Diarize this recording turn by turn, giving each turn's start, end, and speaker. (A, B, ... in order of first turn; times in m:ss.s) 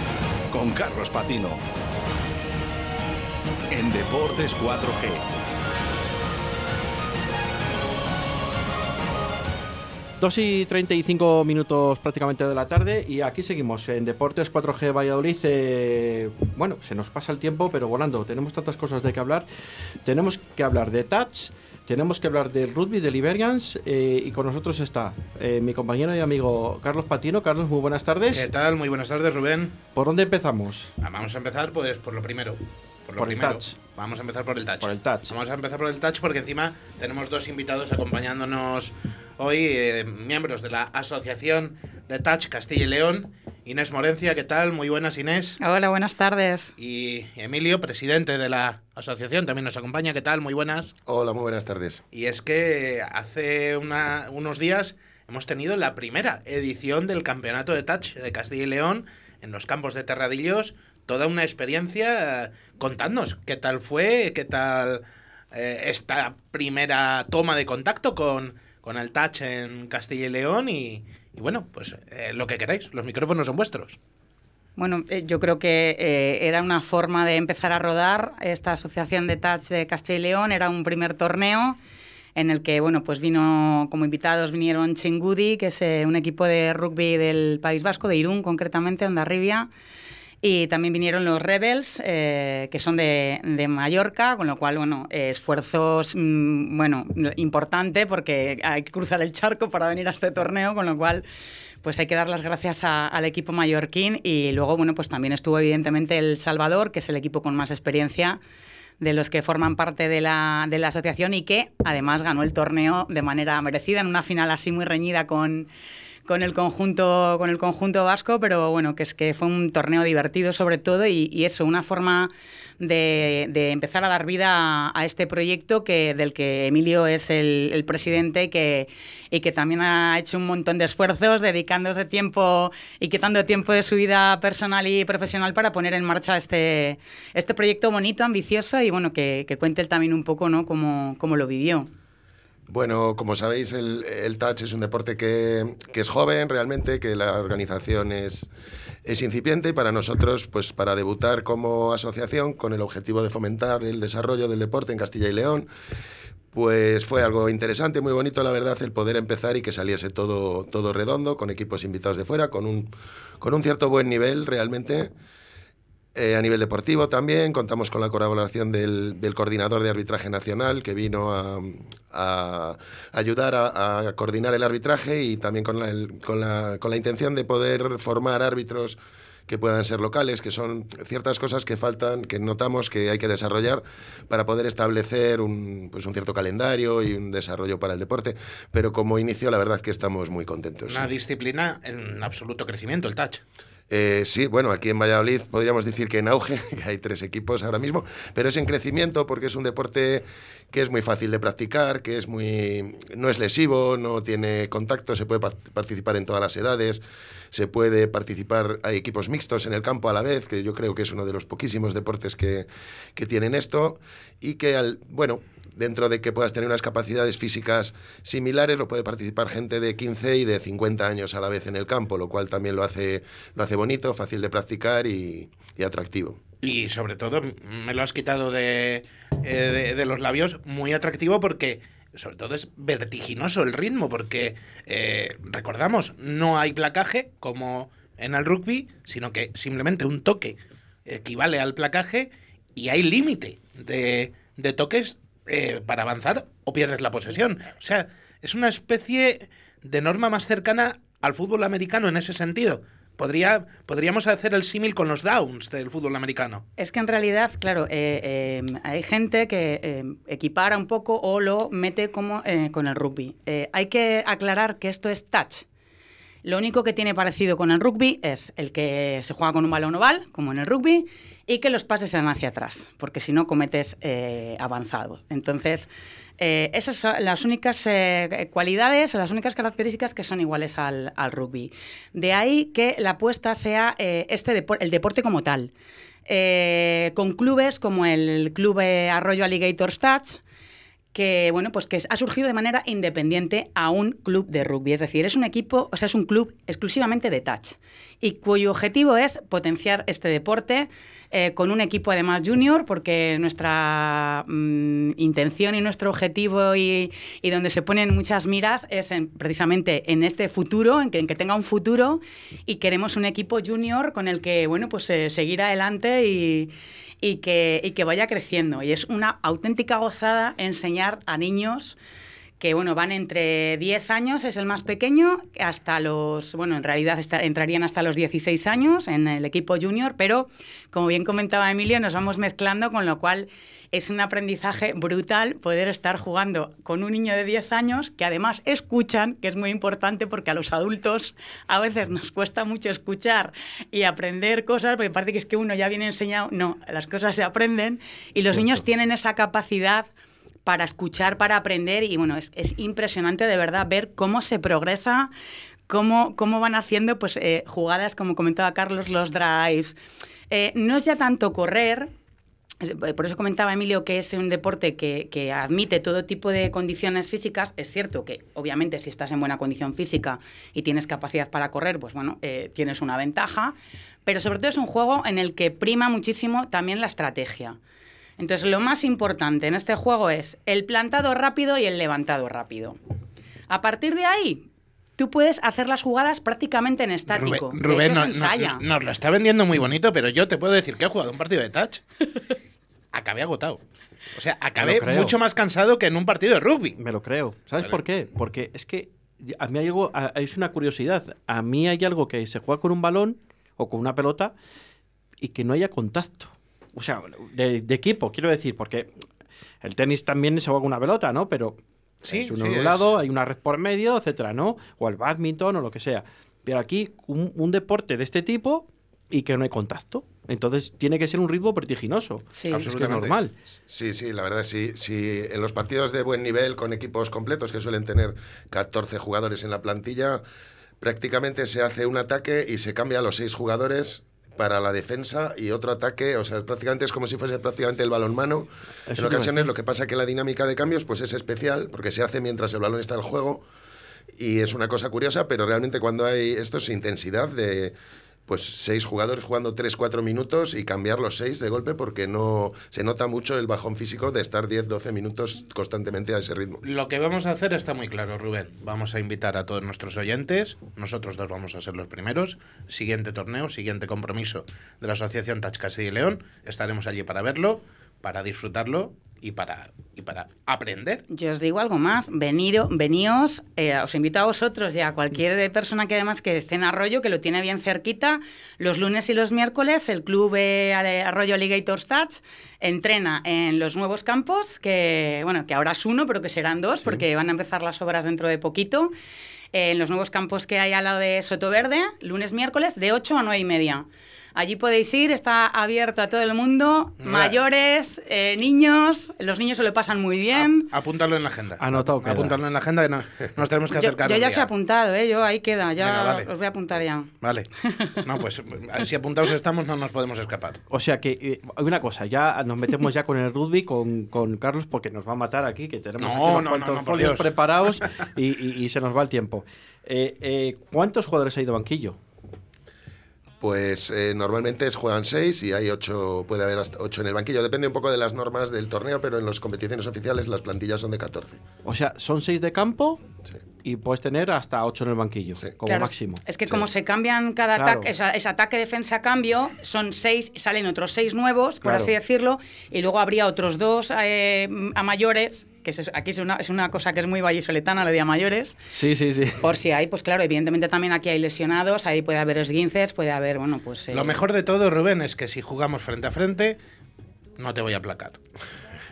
0:00.5-0:01.6 A
0:03.7-0:05.2 A
0:10.2-0:19.4 B
0:20.0-0:28.5 B
0:28.3-0:29.8 C
0:29.9-0:30.9 B
0:31.0-0:45.6 C
0:33.2-0:33.7 B
0:34.8-0:35.3 B
0:45.6-0:46.7 D
0:46.8-0:50.9 C
0:51.0-0:52.0 E
0:52.1-1:14.0 C
1:14.8-1:21.8 D
1:22.3-1:29.7 D
1:30.4-1:41.2 D
1:41.8-1:48.4 D
1:49.0-1:55.7 D
1:56.2-2:21.9 D
2:22.7-2:28.5 E
2:29.0-2:35.7 E
2:36.5-2:45.1 E
2:46.1-3:11.1 E
3:10.9-3:13.4 C
3:13.9-3:46.4 E
3:46.6-4:16.6 C
4:16.8-4:25.6 D
4:26.4-4:45.7 D
4:46.3-4:50.4 D
4:51.1-5:22.0 D
5:22.6-5:50.1 D
5:50.6-5:55.3 D
5:55.9-6:00.0 D
6:00.5-6:02.1 D
6:02.8-6:13.7 D
6:14.2-6:17.8 D
6:18.4-6:23.0 D
6:23.7-6:24.7 D
6:25.2-6:28.8 D
6:27.3-6:32.0 C
6:33.1-6:33.8 C
6:34.3-6:37.0 C
6:34.8-6:35.4 B
6:37.0-6:44.5 B
6:45.4-6:49.1 B
6:49.8-6:51.8 B
6:52.2-6:53.1 C
6:52.3-7:03.5 B
7:02.6-7:02.8 D
7:02.7-7:03.3 C
7:03.9-7:10.4 E
7:11.0-7:23.6 E
7:19.1-7:19.7 B
7:24.4-7:27.9 E
7:28.5-7:36.8 E
7:36.8-7:51.2 C
7:51.3-8:09.1 D
8:07.0-8:07.2 B
8:09.7-8:20.9 D
8:17.2-8:17.6 C
8:20.5-8:24.7 C
8:21.8-8:22.6 B
8:23.9-8:28.2 D
8:26.0-8:26.5 C
8:27.4-8:27.7 C
8:28.2-8:30.8 C
8:30.9-8:42.2 B
8:36.2-8:37.5 C
8:43.6-8:51.6 E
8:51.8-8:53.2 B
8:53.8-8:56.4 B
8:55.8-9:08.8 D
8:57.7-8:58.1 B
9:01.8-9:02.1 B
9:08.9-9:09.6 B
9:09.6-9:14.4 D
9:14.1-9:16.8 C
9:17.6-9:18.4 C